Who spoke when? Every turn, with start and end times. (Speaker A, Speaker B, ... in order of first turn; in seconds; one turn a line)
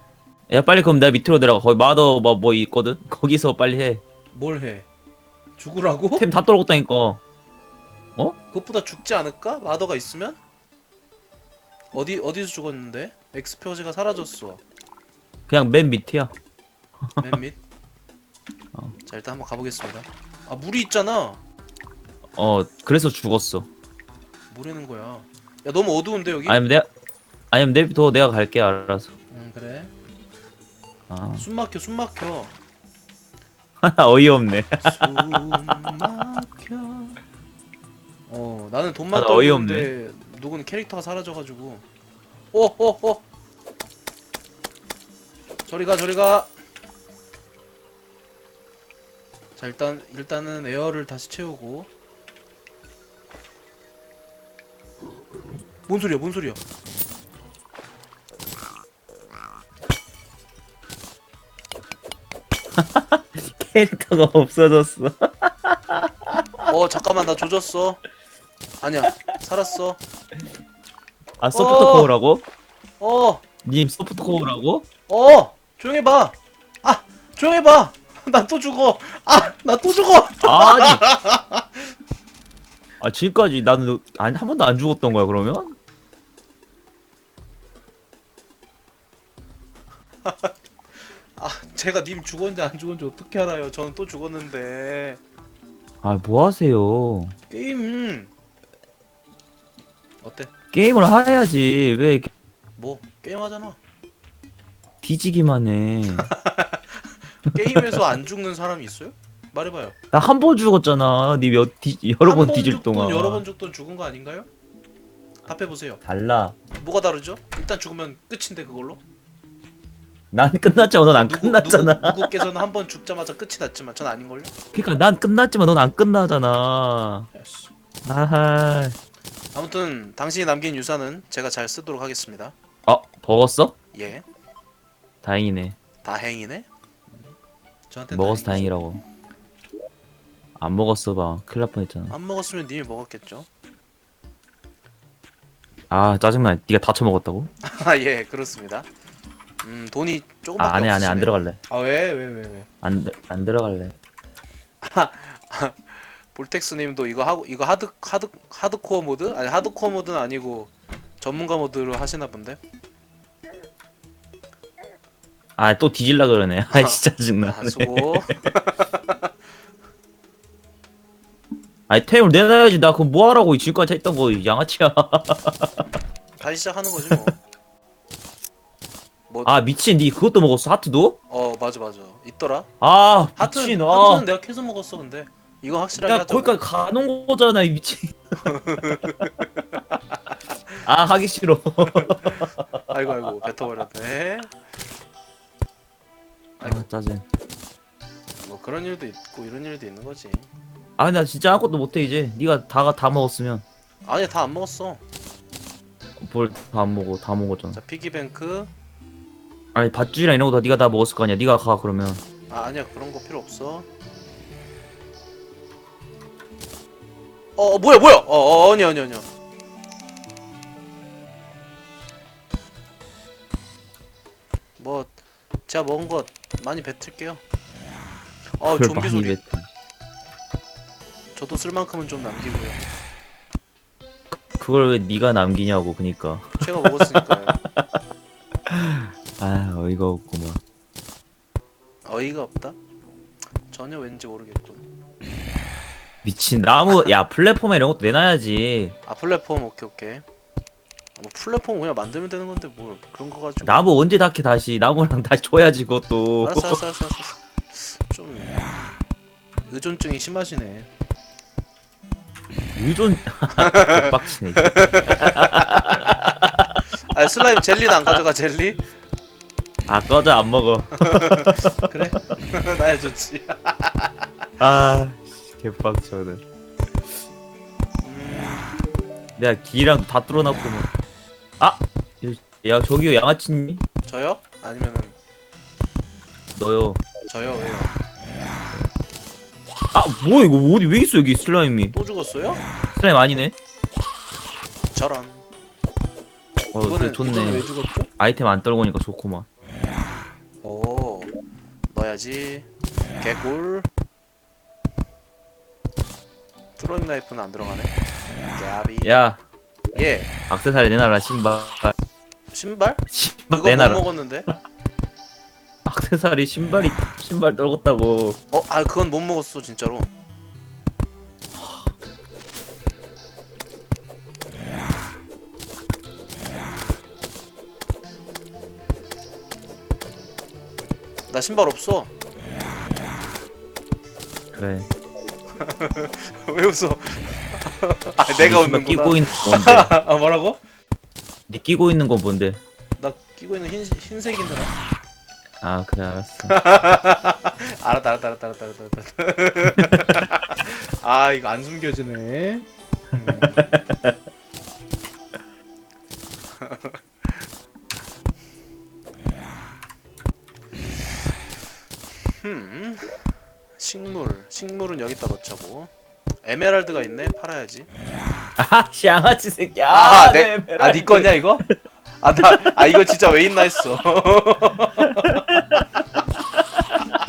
Speaker A: 0.5-4.0
Speaker B: 4.3-4.9
Speaker B: 5.6-6.2
Speaker A: 6.2-7.2
Speaker B: 8.5-10.4
Speaker B: 11.9-14.6
Speaker A: 15.5-16.3
Speaker A: 17.0-17.4
Speaker B: 17.2-17.6
Speaker B: 19.1-21.4
Speaker A: 22.4-23.7
Speaker B: 24.5-26.6
Speaker A: 26.5-26.9
Speaker A: 27.5-29.1
Speaker B: 29.3-29.9
Speaker A: 31.1-31.4
Speaker B: 31.4-32.5
Speaker A: 33.8-36.0
Speaker B: 34.8-37.2
Speaker B: 38.3-41.9
Speaker A: 39.1-39.9
Speaker B: 42.5-43.2
Speaker B: 45.7-46.5
Speaker B: 49.6-51.9
Speaker B: 55.9-56.6
Speaker A: 62.8-66.7
Speaker B: 66.7-68.0
Speaker B: 68.8-70.0
Speaker A: 71.4-72.4
Speaker B: 71.5-72.1
Speaker B: 73.0-73.4
Speaker A: 73.6-74.8
Speaker B: 75.1-81.8
Speaker A: 80.4-81.0
Speaker A: 83.0-85.8
Speaker B: 90.2-90.5
Speaker B: 91.3-95.2
Speaker A: 96.0-97.4
Speaker B: 97.5-98.3
Speaker B: 100.2-100.5
Speaker A: 100.7-102.3
Speaker B: 102.8-103.8
Speaker A: 105.0-106.3
Speaker B: 106.1-110.0
Speaker A: 110.1-113.4
Speaker B: 112.2-114.5
Speaker B: 115.4-116.0
Speaker A: 116.0-116.5
Speaker B: 116.7-119.0
Speaker A: 120.3-122.4
Speaker B: 121.1-124.5
Speaker A: 124.7-127.3
Speaker B: 127.3-127.7
Speaker A: 128.0-128.9
Speaker B: 129.5-132.5
Speaker A: 132.9-133.7
Speaker B: 133.9-134.2
Speaker A: 135.2-135.8
Speaker B: 136.0-136.7
Speaker B: 137.9-138.7
Speaker A: 138.1-139.0
Speaker A: 140.6-142.1
Speaker B: 142.1-143.5
Speaker A: 145.9-147.5
Speaker B: 147.6-148.9
Speaker B: 149.6-152.7
Speaker A: 150.6-151.6
Speaker A: 152.8-153.9
Speaker B: 154.8-162.6
Speaker A: 165.6-168.3
Speaker B: 166.7-169.3
Speaker A: 171.9-175.8
Speaker B: 176.4-177.3
Speaker B: 179.3-179.6
Speaker A: 179.4-181.2
Speaker B: 181.3-182.7
Speaker A: 182.8-184.2
Speaker B: 183.3-186.6
Speaker A: 185.9-189.2
Speaker B: 188.4-189.8
Speaker A: 190.8-192.8
Speaker B: 191.9-194.5
Speaker B: 196.6-196.8
Speaker A: 196.6-197.2
Speaker B: 198.4-200.5
Speaker A: 201.0-203.6
Speaker B: 204.1-205.0
Speaker A: 206.2-207.8
Speaker B: 207.7-208.7
Speaker A: 209.8-212.2
Speaker B: 212.5-213.9
Speaker B: 217.6-219.3
Speaker B: 224.8-227.4
Speaker B: 228.6-229.4
Speaker A: 228.6-229.7
Speaker B: 231.3-232.8
Speaker A: 234.5-238.0
Speaker B: 236.6-237.6
Speaker A: 238.7-240.6
Speaker B: 242.1-242.8
Speaker B: 243.7-244.8
Speaker A: 246.2-248.9
Speaker B: 249.0-250.2
Speaker B: 251.2-253.8
Speaker A: 253.6-256.8
Speaker B: 256.4-258.6
Speaker B: 259.7-260.9
Speaker A: 262.8-266.9
Speaker B: 263.5-266.4
Speaker B: 267.0-268.8
Speaker A: 269.9-272.0
Speaker B: 271.0-274.3
Speaker A: 274.6-276.4
Speaker B: 278.0-278.7
Speaker A: 279.4-280.9
Speaker A: 281.6-283.8
Speaker B: 284.1-285.2
Speaker A: 286.6-287.0
Speaker B: 287.3-288.0
Speaker A: 289.9-291.9
Speaker B: 291.9-292.6
Speaker A: 292.9-293.5
Speaker B: 294.9-295.4
Speaker A: 296.7-297.7
Speaker B: 296.8-298.1
Speaker A: 298.2-299.5
Speaker B: 300.6-301.3
Speaker B: 301.9-302.7
Speaker B: 303.2-303.9
Speaker B: 306.8-308.0
Speaker B: 308.5-309.2
Speaker A: 309.0-309.4
Speaker B: 309.9-310.3
Speaker A: 310.5-311.9
Speaker B: 312.5-314.5
Speaker A: 313.1-314.0
Speaker A: 315.8-318.4
Speaker B: 318.5-320.1
Speaker B: 331.3-332.1
Speaker A: 334.5-334.9
Speaker B: 335.6-340.6
Speaker A: 338.4-339.9
Speaker A: 341.5-342.6
Speaker B: 343.0-344.7
Speaker A: 345.6-346.6
Speaker B: 346.5-353.8
Speaker A: 349.8-350.1
Speaker A: 353.3-354.1
Speaker B: 356.6-357.5
Speaker B: 362.4-363.2
Speaker B: 363.8-365.9
Speaker B: 366.4-367.9
Speaker A: 368.6-371.7
Speaker B: 369.9-371.6
Speaker B: 372.2-375.6
Speaker A: 372.4-373.3
Speaker A: 375.0-377.1